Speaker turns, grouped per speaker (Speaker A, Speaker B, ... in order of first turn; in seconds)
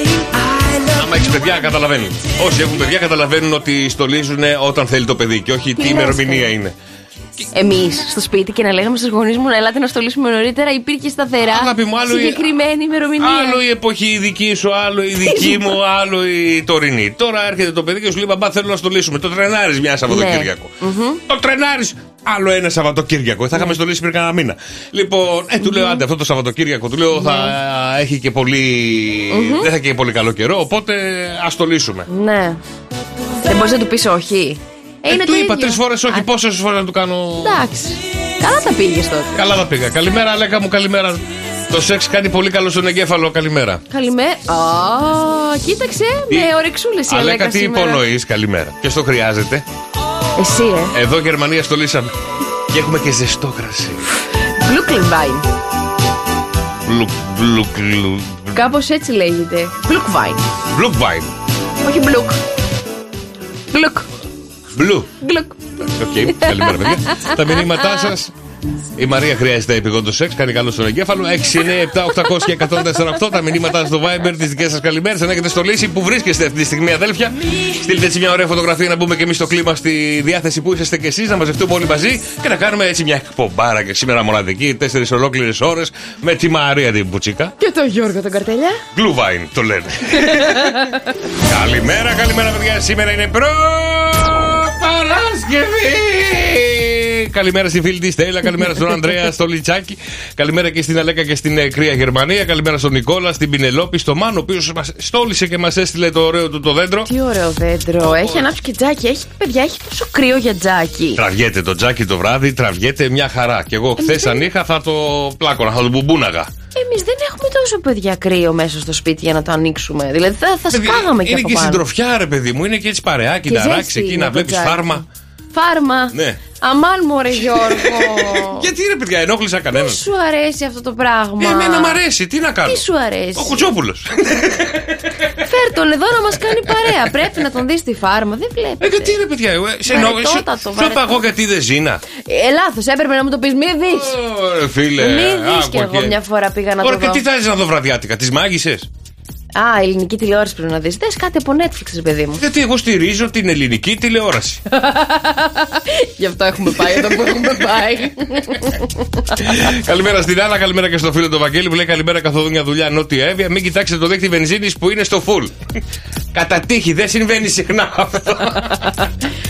Speaker A: 0.9-6.7, 11.4-12.4, 13.2-20.7, 21.3-32.1, 35.1-37.6, 39.3-43.8, 47.1-49.6, 50.9-52.1, 52.7-54.0, 56.9-58.6, 60.7-61.3, 64.7-65.1, 65.8-68.3, 69.0-87.5, 88.9-90.9, 91.5-107.1, 108.0-108.5, 111.2-116.5, 120.7-125.0, 126.1-126.4, 127.6-130.0, 131.4-135.0, 136.7-136.9, 138.8-142.0, 143.9-146.2, 146.8-148.9, 152.4-154.6, 156.8-157.7, 159.4-165.5, 166.3-169.0
Speaker B: 5.8-6.5, 7.5-13.6, 15.2-15.8, 20.1-21.2, 25.6-26.0, 27.1-27.5, 29.3-29.7, 32.1-32.6, 33.5-36.2, 37.4-39.4, 43.9-48.0, 50.4-50.9, 54.6-55.4, 58.5-60.4, 61.8-62.4, 63.7-64.1, 65.2-65.6, 66.4-68.0, 87.6-88.8, 90.2-90.9, 107.0-111.2, 114.0-114.5, 116.7-121.8, 123.5-128.7, 129.7-132.0, 132.7-133.6, 135.4-139.2, 139.9-141.3, 142.2-144.2, 145.0-147.2, 149.5-152.4, 154.7-158.9